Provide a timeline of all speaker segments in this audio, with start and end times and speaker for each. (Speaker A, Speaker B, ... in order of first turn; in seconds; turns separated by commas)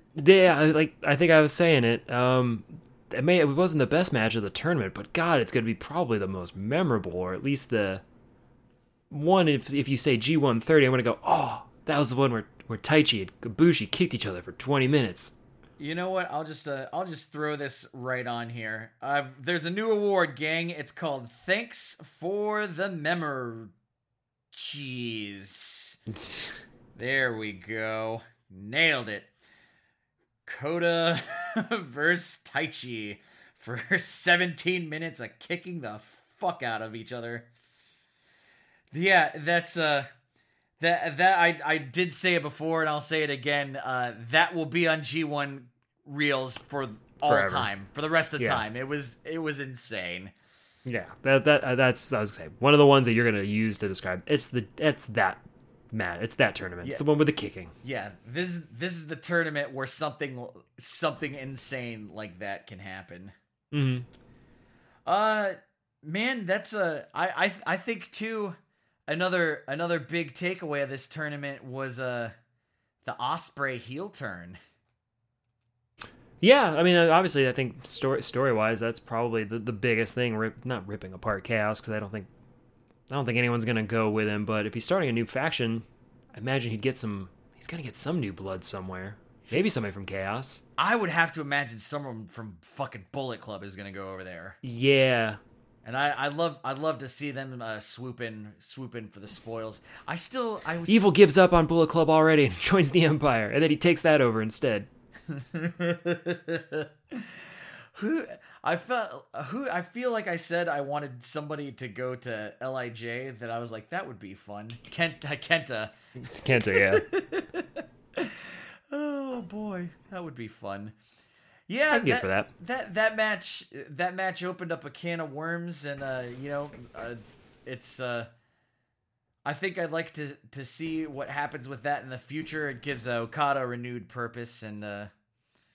Speaker A: 0.1-8.0, Speaker A: 9.1-15.3, Speaker B: 15.8-23.7, Speaker B: 24.5-26.0, Speaker A: 26.1-26.5, Speaker B: 27.0-29.3, Speaker B: 30.5-37.5, Speaker B: 38.9-40.1, Speaker B: 40.8-50.3, Speaker A: 47.3-47.7, Speaker A: 48.4-48.6, Speaker A: 50.9-57.8, Speaker B: 57.8-63.3, Speaker A: 63.7-64.1, Speaker B: 65.1-68.6, Speaker B: 69.1-72.3, Speaker B: 73.0-74.6, Speaker A: 76.4-82.3, Speaker A: 83.1-90.6, Speaker B: 90.8-94.6, Speaker A: 94.6-95.4, Speaker B: 95.8-101.1, Speaker A: 100.9-104.9, Speaker B: 105.3-116.0, Speaker A: 116.2-117.0, Speaker B: 116.6-120.9, Speaker B: 121.7-128.3, Speaker A: 121.9-122.5, Speaker B: 129.4-135.1